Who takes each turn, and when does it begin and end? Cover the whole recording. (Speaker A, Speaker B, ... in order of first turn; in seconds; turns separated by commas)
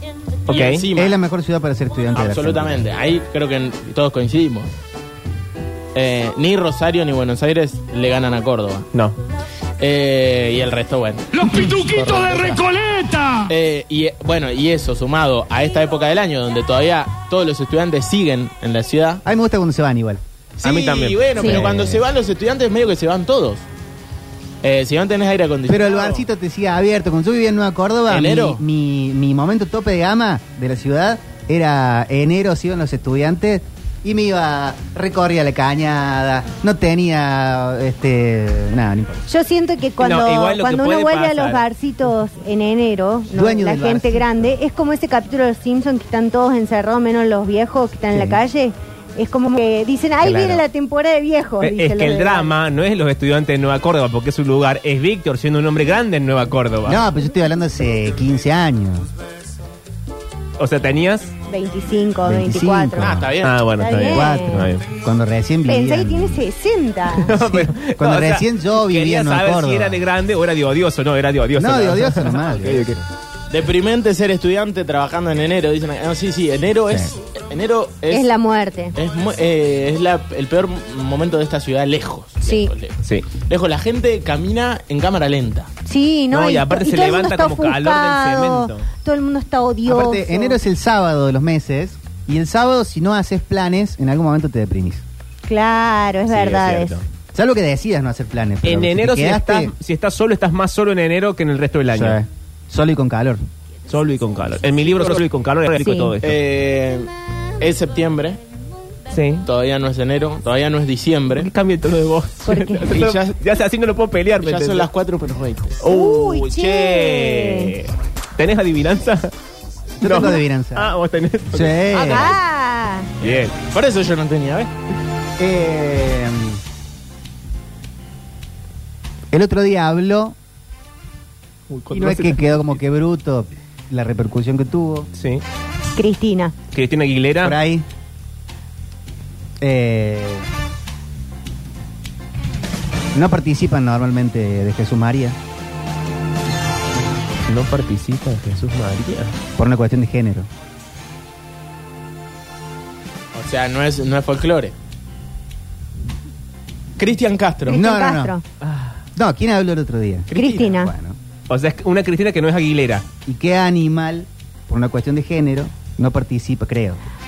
Speaker A: 0.5-0.8, Speaker B: 0.5-1.2, Speaker C: 0.9-2.9, Speaker B: 2.1-4.7, Speaker B: 6.0-8.9, Speaker B: 9.8-11.4, Speaker D: 11.3-13.5, Speaker C: 11.8-12.7, Speaker B: 13.5-19.2, Speaker C: 19.2-20.2, Speaker B: 20.6-23.6, Speaker A: 20.6-22.0, Speaker E: 21.4-21.6, Speaker C: 21.5-21.8, Speaker B: 24.6-26.2, Speaker C: 25.7-39.3, Speaker B: 28.1-28.6, Speaker E: 39.3-52.5, Speaker A: 40.0-41.6, Speaker C: 43.3-44.5, Speaker C: 48.1-48.4, Speaker A: 50.2-50.6, Speaker A: 51.6-57.1, Speaker C: 56.9-59.1, Speaker A: 60.6-61.3, Speaker E: 61.5-63.2, Speaker C: 62.2-63.3, Speaker B: 63.0-63.7, Speaker A: 63.4-64.8, Speaker E: 63.8-64.7, Speaker C: 64.1-66.4, Speaker E: 65.7-67.4, Speaker A: 67.1-73.0, Speaker C: 67.4-70.0, Speaker C: 71.6-73.1, Speaker B: 73.5-78.3, Speaker C: 76.9-77.1, Speaker E: 78.1-79.0, Speaker B: 79.0-85.7, Speaker E: 82.5-82.7, Speaker E: 85.9-90.6, Speaker A: 86.3-88.9, Speaker C: 89.9-95.0, Speaker E: 95.5-97.0, Speaker A: 96.3-97.0, Speaker C: 97.3-99.7, Speaker A: 98.6-102.2, Speaker C: 101.9-103.4, Speaker A: 103.9-106.4, Speaker E: 105.8-106.1, Speaker B: 106.2-108.4, Speaker A: 109.1-109.5, Speaker B: 109.5-111.5, Speaker A: 111.3-114.9, Speaker E: 112.5-112.9, Speaker B: 112.9-113.4, Speaker B: 114.4-115.8, Speaker A: 115.8-119.3, Speaker E: 115.8-117.8, Speaker C: 120.0-120.9, Speaker A: 120.0-122.4, Speaker C: 121.5-122.4, Speaker E: 121.9-123.1, Speaker A: 123.2-123.5, Speaker B: 123.2-124.7, Speaker C: 125.4-126.6, Speaker C: 129.3-130.4, Speaker A: 131.7-132.8, Speaker C: 131.9-135.1, Speaker A: 135.2-135.4, Speaker E: 136.0-136.6, Speaker A: 136.7-137.6, Speaker C: 137.4-137.9, Speaker C: 139.6-140.5, Speaker C: 143.1-145.4, Speaker A: 147.5-149.3, Speaker C: 149.6-150.5, Speaker B: 153.3-154.8, Speaker B: 157.0-157.8, Speaker E: 157.7-158.4, Speaker C: 157.7-158.3, Speaker A: 158.6-158.9, Speaker C: 159.2-161.2, Speaker B: 160.3-160.7, Speaker E: 160.3-160.9, Speaker A: 161.5-163.1, Speaker C: 163.3-167.0